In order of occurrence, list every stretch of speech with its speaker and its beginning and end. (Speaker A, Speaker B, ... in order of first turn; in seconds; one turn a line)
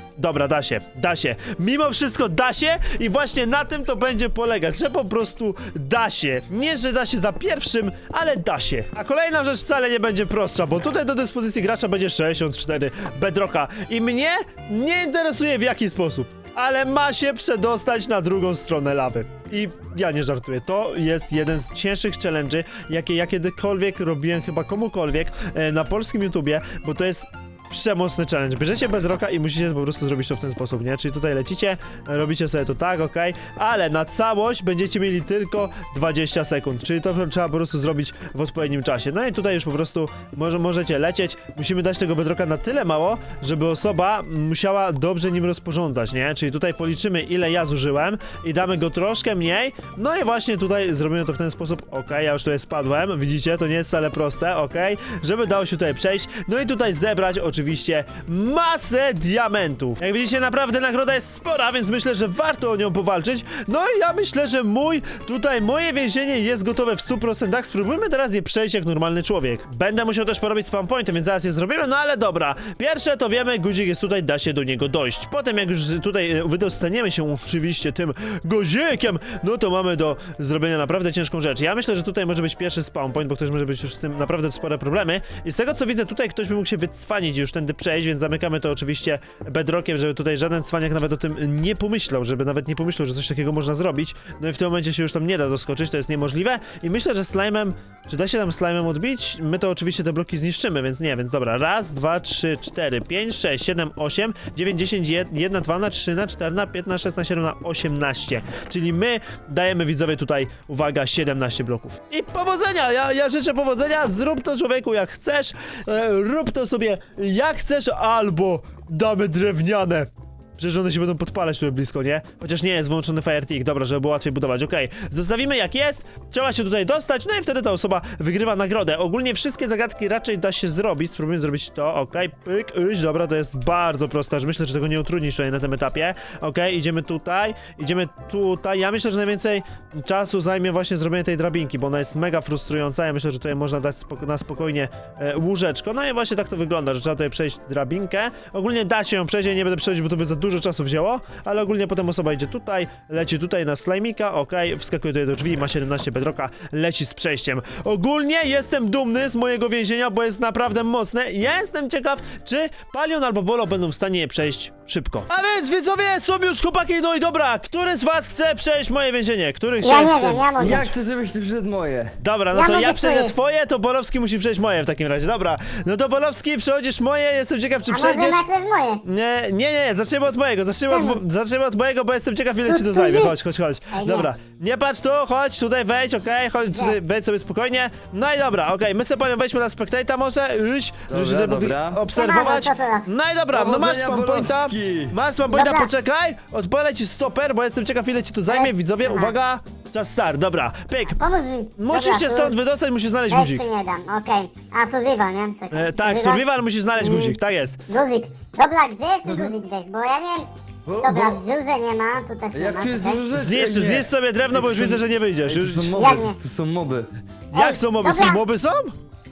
Speaker A: 0.2-170.4
Speaker B: 169.8-170.9
Speaker C: 170.6-172.2
Speaker A: 172.2-178.4
Speaker B: 172.5-173.3
Speaker B: 177.9-179.0
Speaker A: 179.0-201.2
Speaker B: 180.9-181.2
Speaker B: 182.7-183.3
Speaker B: 183.9-184.3
Speaker C: 191.1-192.0
Speaker B: 192.1-193.1
Speaker C: 193.5-195.2
Speaker B: 195.5-195.9
Speaker B: 198.5-199.3
Speaker B: 201.2-202.6
Speaker A: 201.8-203.6
Speaker B: 203.3-206.4
Speaker A: 205.7-207.8
Speaker B: 207.0-207.4
Speaker B: 207.9-210.5
Speaker C: 209.2-209.6
Speaker C: 210.8-211.4
Speaker B: 211.0-213.2
Speaker C: 212.5-217.1
Speaker A: 213.3-216.0
Speaker B: 215.9-216.4
Speaker A: 217.5-218.9
Speaker B: 217.5-218.4